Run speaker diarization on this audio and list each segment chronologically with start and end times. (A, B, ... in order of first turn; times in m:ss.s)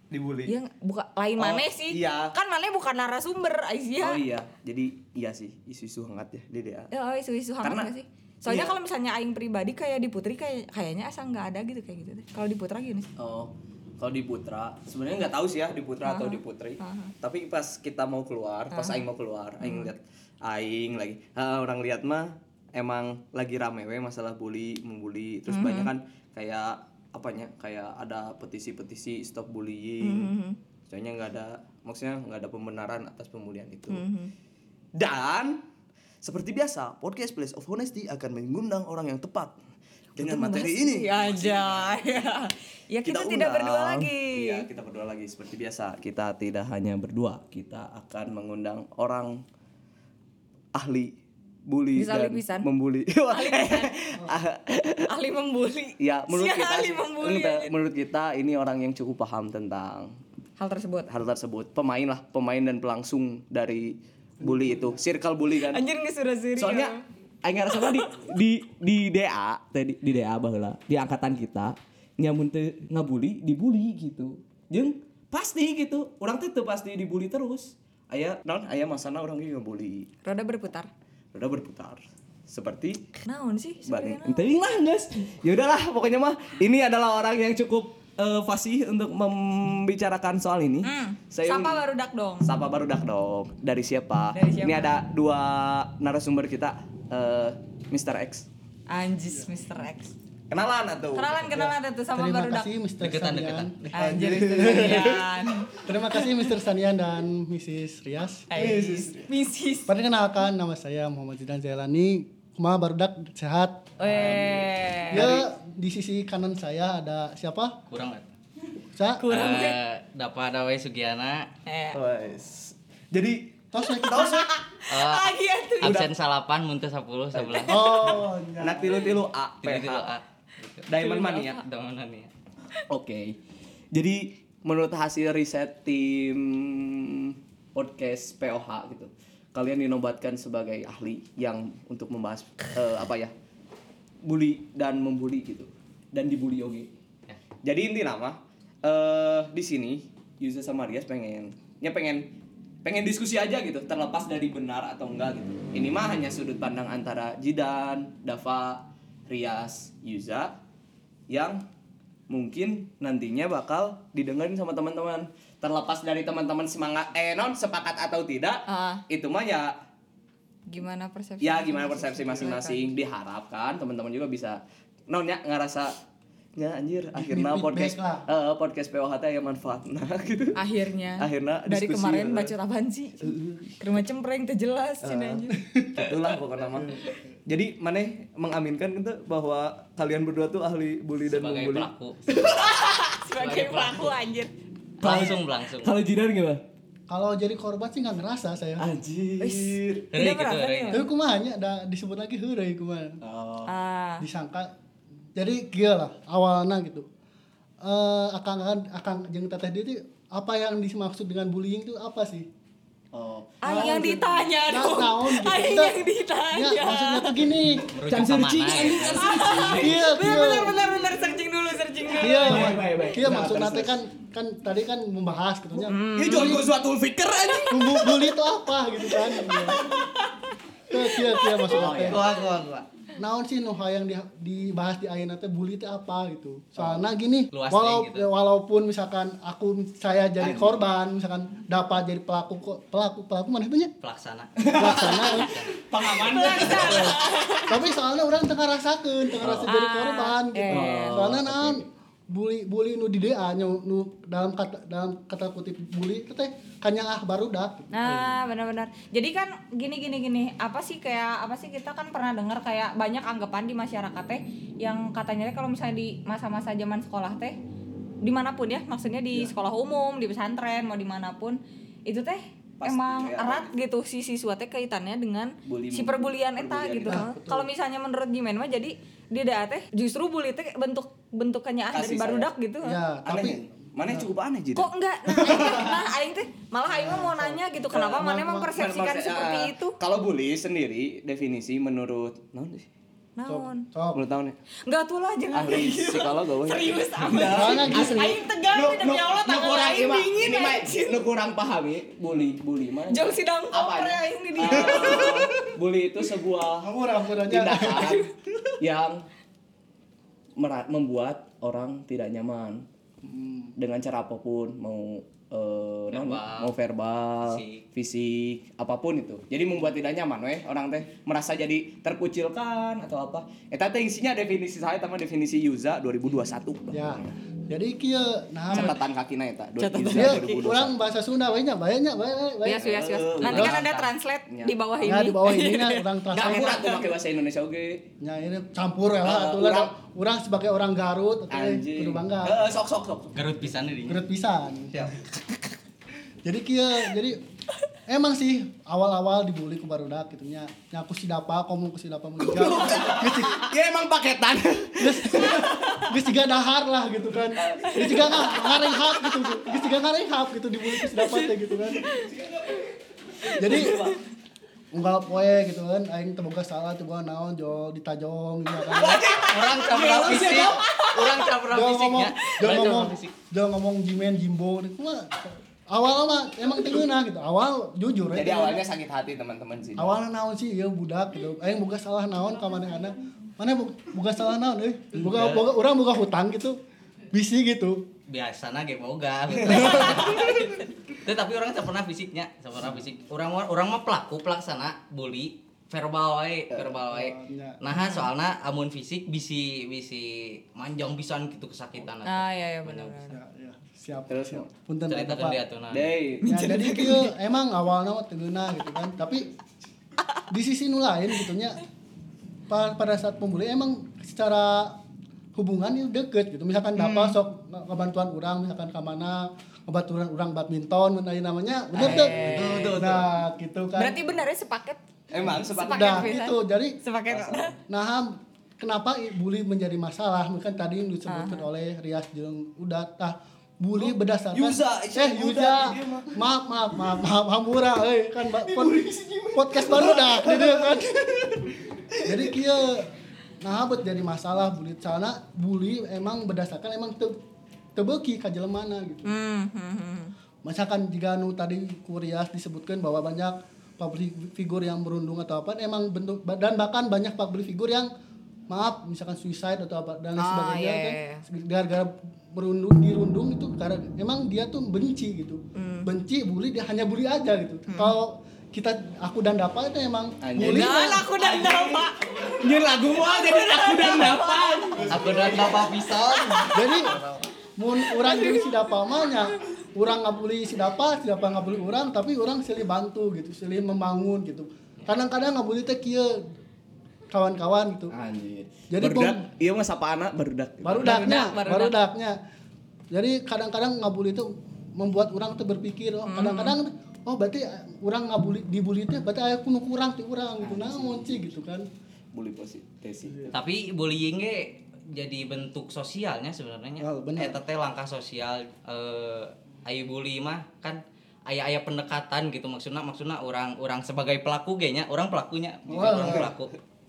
0:00.1-0:00.5 A
0:00.5-0:04.2 B
0:01.4-0:02.3 A
0:04.0-0:06.9 A
0:06.9-0:13.1 B
0:07.6-0:07.9 A
0:08.4-0:08.7 A
0:13.2-0:30.3 A
0:16.0-0:17.1 B
0:18.7-0:19.0 B
0:19.6-0:19.9 B
0:25.5-0:25.9 B
0:30.0-0:30.6 B
0:30.9-0:34.0 A
0:33.9-0:34.3 B
0:35.0-0:35.6 A
0:36.2-0:39.6 A
0:40.2-0:44.7 B
0:40.2-0:42.2 A
0:43.0-0:49.4 A
0:50.8-0:51.1 A
0:51.7-0:55.1 A
0:52.0-0:52.7 B
0:53.3-0:54.0 B
0:55.1-0:57.7 B
0:56.0-1:00.2 A
1:00.6-1:01.1 B
1:01.1-1:05.8 A
1:04.4-1:05.0 C
1:05.6-1:07.0 B
1:06.6-1:06.9 A
1:07.4-1:20.1 A
1:07.7-1:08.1 B
1:20.2-1:20.9 B
1:21.3-1:23.0 A
1:23.2-1:24.5 B
1:23.9-1:31.8 A
1:30.8-1:32.5 B
1:32.4-1:38.5 A
1:34.3-1:34.9 B
1:38.9-1:40.2 B
1:40.5-1:41.6 A
1:41.2-1:42.7 B
1:41.5-1:45.1 C
1:43.0-1:44.2 D
1:44.0-1:46.3 B
1:44.0-1:45.3 A
1:45.8-1:49.0 C
1:48.5-1:49.9 B
1:48.5-1:49.3 A
1:49.9-1:53.9 C
1:54.0-1:55.2 B
1:54.1-1:54.5 A
1:55.1-1:55.5 A
1:55.1-1:57.8 C
1:57.9-1:58.3 D
1:58.9-1:59.3 C
1:59.2-1:59.8 B
1:59.3-2:01.5 D
2:01.7-2:02.0 B
2:01.9-2:04.5 A
2:03.7-2:04.4 C
2:04.1-2:06.0 B
2:04.9-2:08.2 D
2:05.8-2:06.1 A
2:07.3-2:10.1 A
2:07.7-2:09.0 C
2:09.6-2:12.3 D
2:10.9-2:11.6 A
2:12.9-2:13.4 A
2:13.9-2:23.3 A
2:24.2-2:26.9 A
2:27.6-2:32.3 A
2:32.8-2:40.6 A
2:41.3-2:41.6 A
2:42.3-2:49.8 A
2:48.7-2:49.0 B
2:50.7-2:52.9 B
2:51.4-2:56.0 A
2:56.6-3:00.6 A
2:57.1-2:58.3 C
3:00.6-3:05.6 B
3:01.2-3:02.5 A
3:03.2-3:03.8 A
3:05.0-3:05.4 A
3:05.6-3:06.1 C
3:06.0-3:11.9 A
3:06.7-3:07.3 C
3:11.3-3:12.6 D
3:12.4-3:14.5 B
3:13.3-3:14.2 D
3:15.0-3:16.6 A
3:15.0-3:15.9 D
3:17.1-3:18.9 C
3:18.8-3:20.1 A
3:20.1-3:21.0 D
3:20.1-3:21.0 B
3:20.9-3:23.2 C
3:23.2-3:23.7 A
3:23.7-3:24.3 B
3:24.2-3:24.7 C
3:25.4-3:27.1 C
3:27.8-3:32.5 C
3:33.1-3:33.9 A
3:33.6-3:37.4 B
3:33.7-3:36.0 C
3:36.5-3:37.9 C
3:37.9-3:39.8 D
3:38.0-3:40.0 A
3:39.1-3:43.2 B
3:39.8-3:40.8 C
3:42.2-3:44.0 A
3:42.2-3:46.6 C
3:45.8-3:46.6 B
3:46.2-3:48.3 A
3:47.7-3:49.8 C
3:49.1-3:50.1 A
3:49.6-3:50.5 B
3:50.9-3:52.3 C
3:51.1-3:51.7 B
3:51.7-3:52.9 A
3:52.1-3:52.4 D
3:53.2-4:03.9 C
3:57.5-3:58.3 D
4:00.4-4:00.8 A
4:04.0-4:05.7 D
4:04.6-4:07.3 A
4:04.7-4:05.6 C
4:06.0-4:07.8 B
4:06.6-4:18.2 C
4:09.4-4:09.7 A
4:09.6-4:11.2 B
4:10.7-4:11.8 A
4:17.9-4:27.6 B
4:28.2-4:43.0 B
4:32.8-4:33.7 A
4:35.6-4:37.2 A
4:37.1-4:37.7 C
4:41.9-4:42.5 A
4:42.8-4:44.3 C
4:43.2-4:46.0 A
4:44.8-4:50.0 B
4:45.5-4:45.8 C
4:46.9-4:47.6 C
4:47.9-4:52.9 A
4:48.2-4:48.7 C
4:53.4-4:53.9 B
4:53.5-4:54.2 C
4:54.1-4:54.6 A
4:54.8-5:01.2 B
4:55.5-5:06.9 A
4:57.4-4:58.4 C
5:03.1-5:05.5 B
5:04.7-5:05.7 C
5:06.8-5:08.8 C
5:07.4-5:08.2 A
5:07.7-5:08.3 B
5:08.8-5:09.2 A
5:10.6-5:12.9 A
5:13.2-5:13.7 C
5:13.8-5:27.3 A
5:16.1-5:16.7 D
5:17.4-5:17.8 D
5:26.9-5:29.0 C
5:28.7-5:30.9 A
5:29.8-5:30.7 B
5:30.1-5:32.9 C
5:32.6-5:37.1 B
5:32.8-5:34.7 A
5:33.4-5:34.0 D
5:33.5-5:33.8 C
5:35.0-5:36.8 C
5:36.3-5:38.1 A
5:38.2-5:42.7 C
5:39.2-5:39.9 A
5:41.5-5:43.4 A
5:43.3-5:44.2 D
5:44.1-5:45.1 C
5:44.9-5:45.4 A
5:46.4-5:47.4 C
5:48.1-5:53.7 C
5:52.4-5:56.1 A
5:55.0-6:02.0 C
5:57.7-5:59.3 B
5:57.7-5:58.5 A
6:01.0-6:01.5 B
6:02.0-6:02.3 B
6:02.1-6:02.9 A
6:03.4-6:04.2 B
6:03.6-6:04.0 C
6:03.6-6:04.2 A
6:04.9-6:09.4 C
6:08.9-6:10.9 A
6:09.1-6:13.3 D
6:10.6-6:11.4 B
6:11.7-6:18.8 C
6:18.3-6:20.2 A
6:20.0-6:26.8 C
6:25.2-6:25.7 D
6:27.3-6:28.0 C
6:28.3-6:43.2 D
6:29.5-6:30.6 A
6:37.1-6:37.8 C
6:37.9-6:38.3 B
6:42.2-6:43.4 B
6:43.3-6:45.6 C
6:44.3-6:44.7 A
6:45.1-6:46.1 D
6:45.9-6:46.9 A
6:46.4-6:49.5 C
6:46.5-6:47.3 B
6:50.5-6:51.8 C
6:52.7-6:55.0 C
6:55.6-7:04.2 C
6:57.0-6:57.4 B
7:02.0-7:03.0 B
7:02.0-7:03.3 A
7:04.0-7:05.0 B
7:05.3-7:06.4 A
7:05.5-7:07.0 C
7:05.7-7:07.7 B
7:07.3-7:07.7 A
7:07.9-7:21.5 C
7:11.3-7:11.7 B
7:14.0-7:16.4 A
7:18.5-7:22.6 A
7:22.2-7:27.4 C
7:28.0-7:29.3 C
7:29.3-7:30.3 B
7:30.6-7:38.1 C
7:38.7-7:51.3 C
7:40.4-7:41.4 B
7:45.8-7:46.1 B
7:47.9-7:48.2 B
7:50.4-7:56.9 A
7:50.6-7:52.5 B
7:53.1-7:55.1 B
7:55.1-7:57.5 D
7:56.7-7:57.2 C
7:57.8-8:06.4 C
7:58.2-7:58.6 B
8:07.3-8:08.1 C
8:08.1-8:11.5 A
8:08.9-8:09.4 C
8:10.8-8:12.4 C
8:11.0-8:12.0 B
8:13.1-8:21.9 C
8:16.3-8:16.8 B
8:20.6-8:21.5 A
8:22.3-8:23.5 A
8:23.3-8:23.6 C
8:23.5-8:36.7 D
8:27.0-8:27.6 C
8:35.9-8:36.5 C
8:35.9-8:36.5 A